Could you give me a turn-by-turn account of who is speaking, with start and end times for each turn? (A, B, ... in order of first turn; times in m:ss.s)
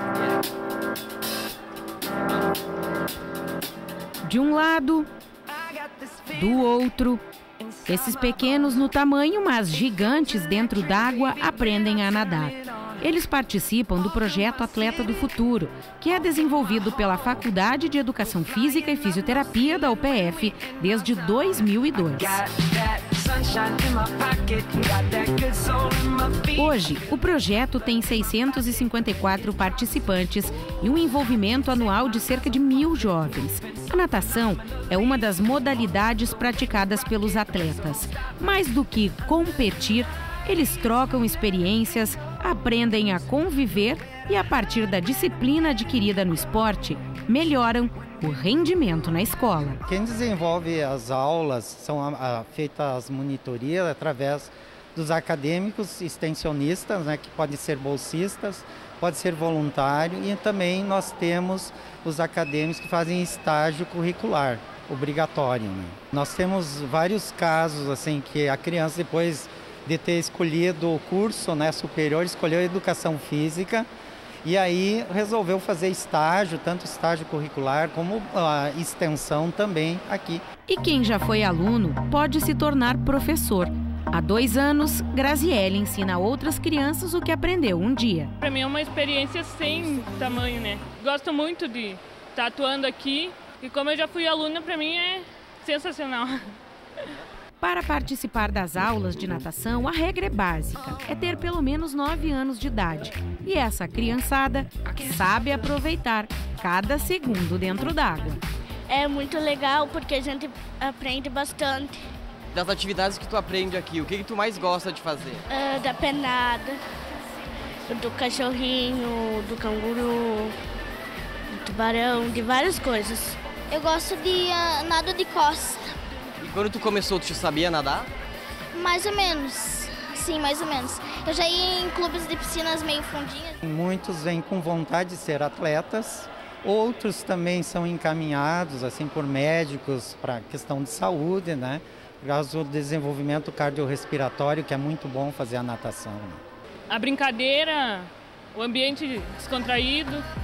0:04.3-0:05.1 A
0:06.2-0:07.2 A
0:07.8-0:22.4 A
0:26.4-0:49.8 A
0:49.8-1:13.9 B
1:14.4-1:20.4 B
1:20.7-1:28.3 A
1:28.4-1:36.4 C
1:37.6-1:48.4 A
1:48.9-1:52.0 D
1:52.5-1:55.4 E
1:55.5-1:56.8 D
1:57.9-2:00.5 D
2:01.5-2:03.4 D
2:03.7-2:06.0 F
2:06.4-2:08.1 E
2:08.7-2:13.5 F
2:13.6-2:26.4 B
2:26.9-2:30.2 C